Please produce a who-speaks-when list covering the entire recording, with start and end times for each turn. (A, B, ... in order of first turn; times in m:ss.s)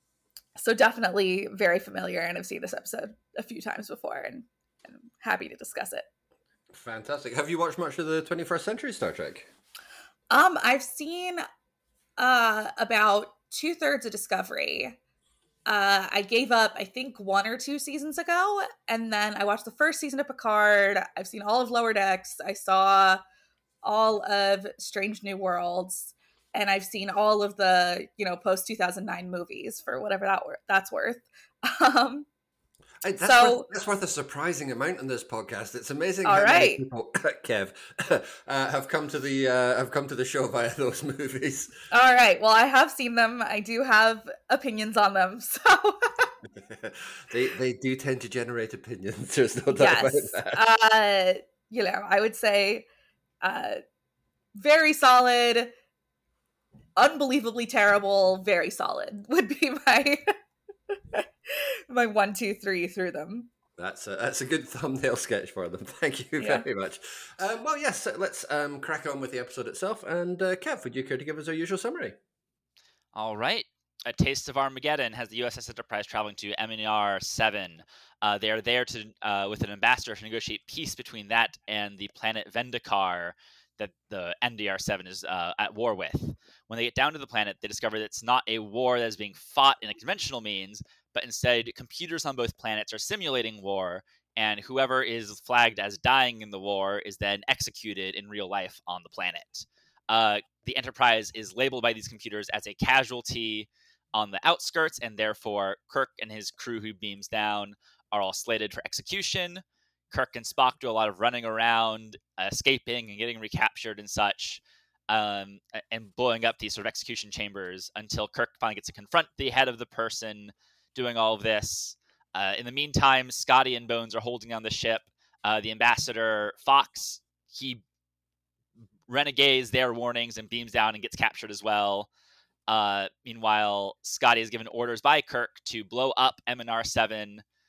0:00.6-0:06.1 A
0:06.7-0:09.5 B
0:10.3-0:11.4 A
0:12.2-0:15.0 A
0:15.7-0:23.2 A
0:23.8-0:32.3 A
0:33.0-0:41.7 B
0:33.2-0:33.7 A
0:36.2-0:36.8 A
0:41.9-0:46.3 A
0:46.6-0:50.6 B
0:49.7-0:52.9 A
0:53.4-0:53.8 A
0:54.6-0:55.7 A
0:57.0-1:00.2 A
1:01.1-1:03.5 A
1:03.8-1:12.2 B
1:06.4-1:06.6 A
1:13.1-2:07.8 C
2:09.1-2:12.1 C
2:12.7-2:17.4 C